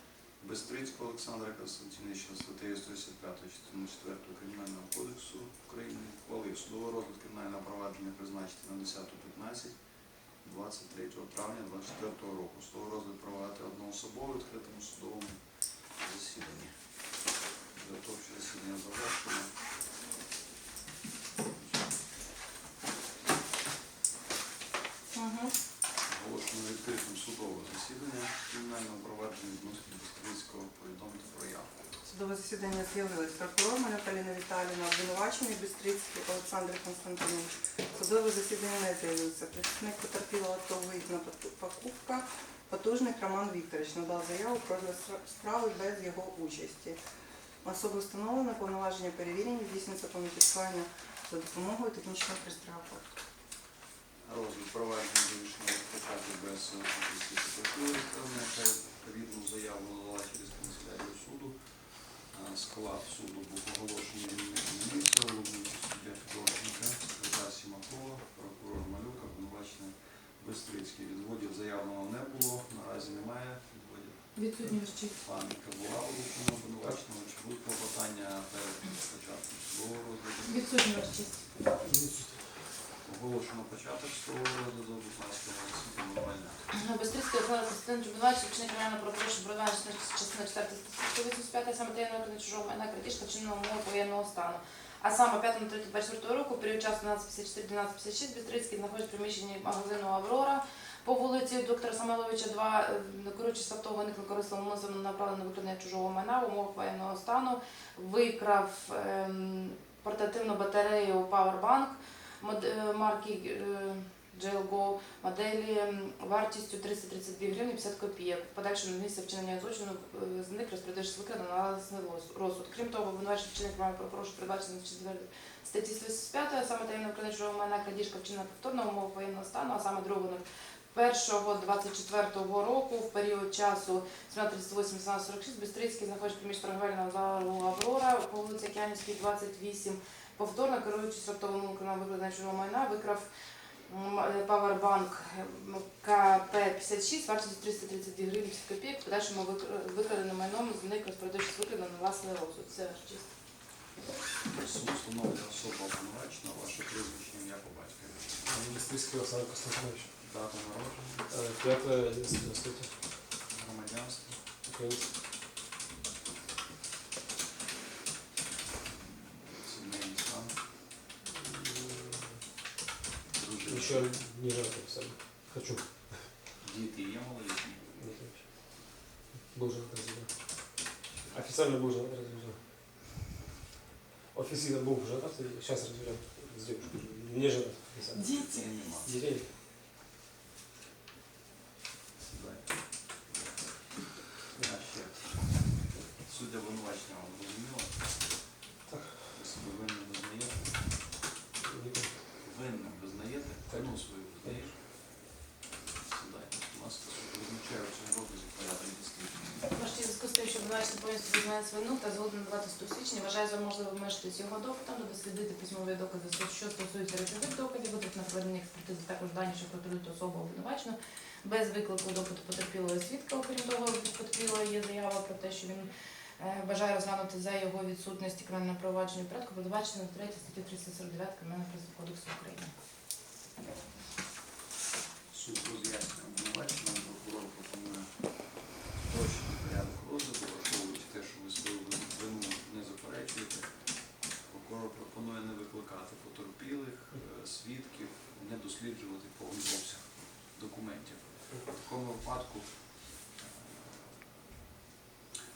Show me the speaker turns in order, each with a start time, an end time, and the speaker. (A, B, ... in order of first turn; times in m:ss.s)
0:00.4-0:09.8 A
0:10.4-0:16.8 A
0:17.8-0:19.5 A
0:26.0-0:31.8 A
0:32.0-0:47.0 B
0:47.6-0:53.1 B
0:54.2-1:14.4 A
1:14.3-1:15.1 C
1:15.1-1:20.7 A
1:20.4-1:21.4 C
1:21.8-1:22.7 D
1:23.0-1:26.7 A
1:26.7-2:23.3 C
2:23.9-2:33.3 C
2:34.5-2:38.5 A
2:38.4-2:40.1 D
2:40.2-2:41.3 A
2:41.3-2:43.0 D
2:43.5-2:44.4 A
2:44.6-2:45.0 D
2:49.0-2:50.6 A
2:51.3-2:52.4 D
2:53.3-2:54.1 A
2:53.7-2:56.3 D
2:56.6-2:57.9 A
2:58.0-2:58.9 D
2:59.4-3:00.7 D
3:01.3-3:02.6 D
3:04.3-3:08.4 D
3:08.1-3:08.6 C
3:08.2-3:09.2 A
3:09.0-3:09.5 D
3:12.2-3:18.4 A
3:18.9-3:19.2 D
3:19.3-3:20.7 A
3:21.6-3:22.1 D
3:22.4-3:29.6 A
3:23.7-3:24.5 D
3:29.7-3:52.7 C
3:55.3-4:14.3 A